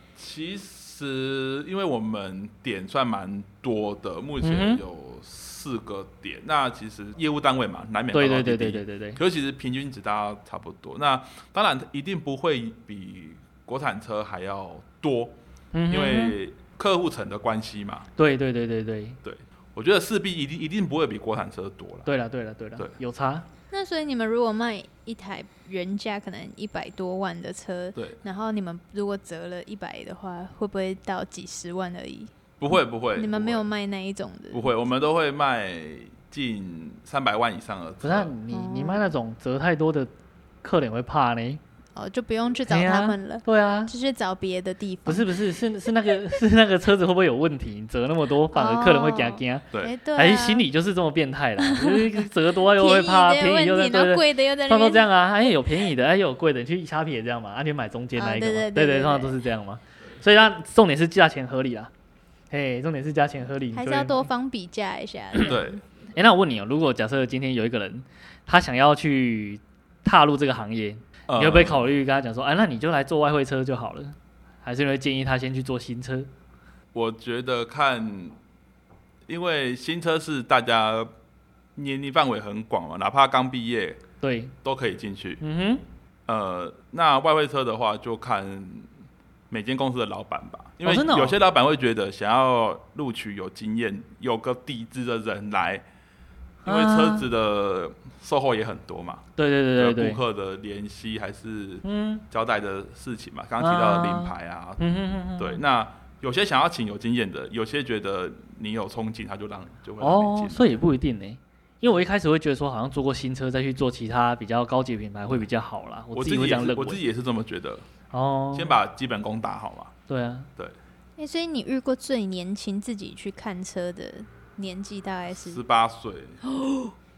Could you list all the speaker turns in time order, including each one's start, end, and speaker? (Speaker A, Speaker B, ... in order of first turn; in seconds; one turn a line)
Speaker A: 0.2-15.4
Speaker B: 4.4-4.8
Speaker B: 8.1-9.2
Speaker B: 15.7-16.4
Speaker A: 15.9-18.1
Speaker B: 18.2-19.2
Speaker A: 19.2-22.1
Speaker B: 22.1-23.5
Speaker C: 23.7-32.3
Speaker A: 32.6-33.7
Speaker C: 33.1-34.7
Speaker A: 34.5-38.3
Speaker B: 38.0-40.1
Speaker C: 38.5-39.1
Speaker B: 40.6-41.6
Speaker C: 42.0-45.3
Speaker B: 42.7-43.9
Speaker B: 45.1-61.9
Speaker C: 48.5-50.6
Speaker C: 51.6-55.0
Speaker C: 58.2-59.4
Speaker B: 62.5-64.2
Speaker C: 63.7-65.8
Speaker A: 65.4-65.8
Speaker B: 66.2-76.3
Speaker A: 71.3-71.9
Speaker A: 76.9-78.4
Speaker A: 79.3-81.1
Speaker A: 81.8-84.0
Speaker B: 84.2-84.5
Speaker A: 84.6-85.4
Speaker B: 85.4-85.8
Speaker A: 86.3-88.9
Speaker A: 89.5-95.8
Speaker B: 90.8-91.4
Speaker B: 96.7-97.3
Speaker A: 96.7-104.8
Speaker B: 99.4-100.2
Speaker B: 101.8-102.2
Speaker B: 103.6-105.6
Speaker A: 105.4-110.8
Speaker B: 110.0-117.0
Speaker A: 116.1-117.8
Speaker B: 118.1-118.8
Speaker A: 118.5-119.9
Speaker B: 120.1-120.5
Speaker C: 121.2-125.6
Speaker A: 125.4-126.4
Speaker C: 126.5-126.9